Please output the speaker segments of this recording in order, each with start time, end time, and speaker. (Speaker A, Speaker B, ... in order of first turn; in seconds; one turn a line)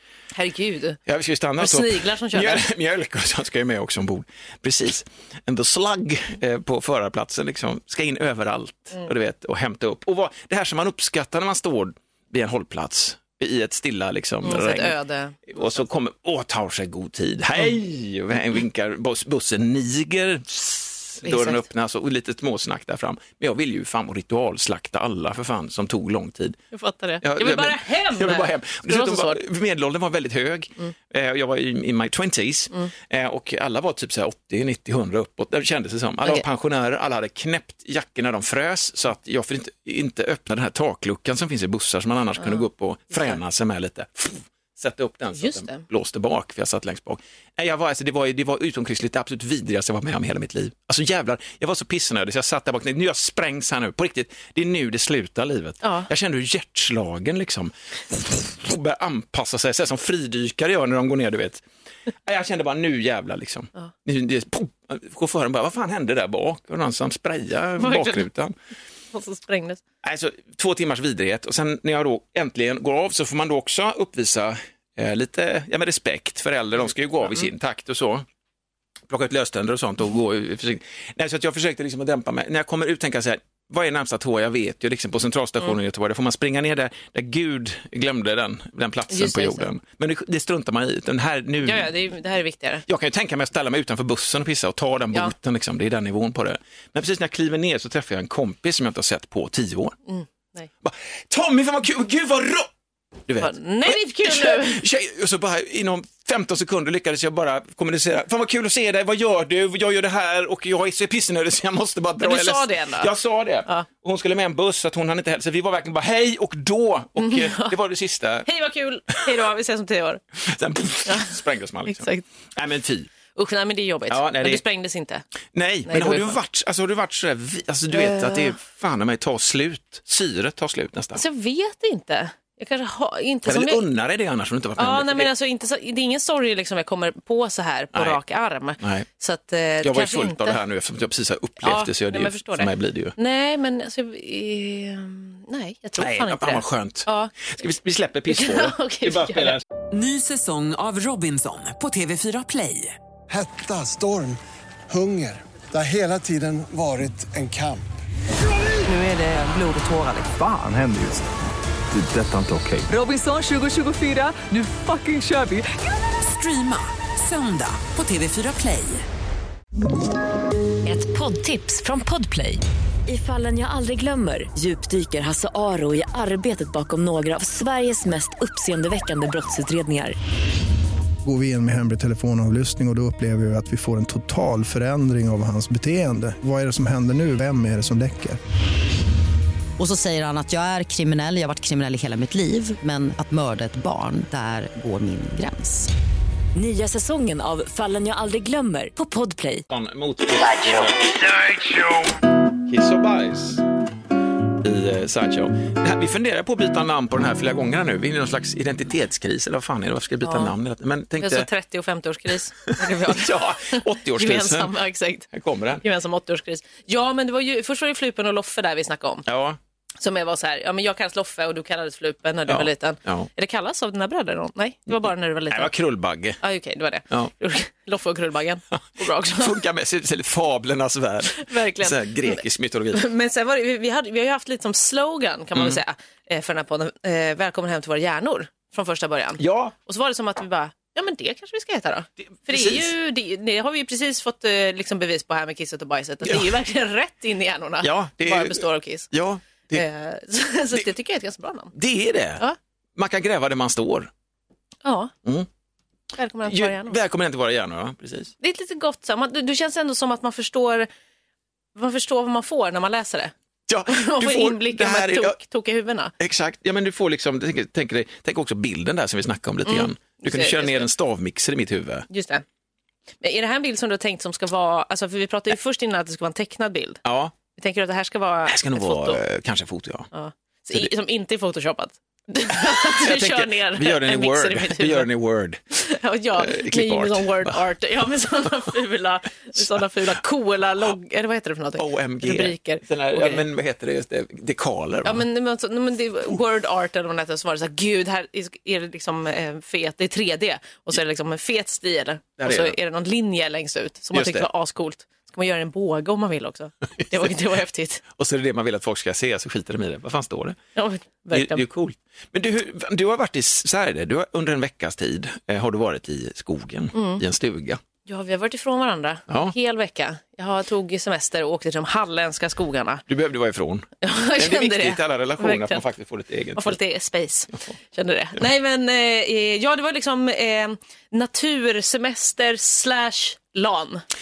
Speaker A: 0.3-1.0
Speaker B: 1.1-14.9
Speaker A: 1.6-2.6
Speaker A: 14.4-15.8
Speaker B: 15.5-26.6
Speaker A: 21.2-21.6
Speaker A: 26.7-29.4
Speaker B: 27.2-61.6
Speaker A: 45.3-45.8
Speaker A: 55.8-56.1
Speaker B: 62.2-68.5
Speaker A: 67.8-68.3
Speaker A: 69.1-69.8
Speaker B: 70.0-78.2
Speaker B: 79.1-91.9
Speaker A: 89.1-89.7
Speaker A: 91.6-92.8
Speaker B: 92.9-100.0
Speaker A: 100.1-100.7
Speaker B: 100.8-102.7
Speaker B: 103.3-118.5
Speaker A: 103.4-104.8
Speaker A: 112.2-113.1
Speaker A: 117.2-117.7
Speaker A: 118.4-120.2
Speaker B: 120.4-123.1
Speaker A: 121.0-121.3
Speaker A: 121.8-122.2
Speaker A: 123.3-125.2
Speaker B: 124.1-124.6
Speaker B: 125.5-131.2
Speaker A: 125.8-126.4
Speaker A: 127.9-128.5
Speaker A: 131.1-133.8
Speaker B: 133.4-135.3
Speaker A: 134.8-140.6
Speaker B: 137.9-138.2
Speaker B: 138.8-139.1
Speaker B: 139.8-143.1
Speaker A: 141.6-147.3
Speaker B: 145.9-149.6
Speaker A: 148.3-149.6
Speaker C: 149.9-152.9
Speaker D: 153.3-157.9
Speaker C: 158.8-160.2
Speaker E: 160.2-161.3
Speaker E: 161.9-162.9
Speaker C: 162.9-169.0
Speaker F: 170.8-180.1
Speaker G: 181.2-188.4
Speaker H: 189.8-195.9
Speaker F: 196.5-199.6
Speaker B: 199.7-203.6
Speaker B: 204.6-211.5
Speaker A: 210.2-210.5
Speaker A: 211.2-215.3
Speaker B: 212.7-214.7
Speaker B: 215.3-215.8
Speaker A: 215.8-219.2
Speaker B: 219.2-219.6
Speaker A: 220.0-225.7
Speaker B: 222.5-223.3
Speaker B: 225.5-226.4
Speaker A: 226.4-229.6
Speaker B: 229.3-233.0
Speaker A: 231.3-249.1
Speaker B: 235.5-235.8
Speaker B: 239.4-239.7
Speaker B: 242.4-242.9
Speaker B: 246.2-246.5
Speaker B: 247.8-249.8
Speaker A: 249.7-251.7
Speaker B: 251.7-252.4
Speaker B: 252.9-254.1
Speaker A: 254.8-255.1
Speaker A: 256.1-257.0
Speaker B: 256.4-258.3
Speaker A: 258.4-260.9
Speaker A: 261.7-263.3
Speaker B: 263.7-265.4
Speaker A: 263.9-266.1
Speaker B: 266.2-272.1
Speaker A: 269.6-270.9
Speaker A: 272.1-272.4
Speaker A: 273.2-279.2
Speaker B: 277.0-277.3
Speaker B: 278.5-280.1
Speaker A: 280.1-285.1
Speaker B: 282.6-285.6
Speaker A: 285.7-293.4
Speaker B: 286.4-287.6
Speaker B: 291.8-295.2
Speaker A: 295.0-308.0
Speaker B: 302.4-302.8
Speaker B: 304.1-304.5
Speaker B: 308.1-310.6
Speaker A: 310.8-311.6
Speaker B: 311.3-317.8
Speaker A: 316.9-317.2
Speaker A: 318.0-323.0
Speaker B: 319.3-319.5
Speaker B: 323.1-326.8
Speaker A: 324.0-325.8
Speaker A: 326.5-334.0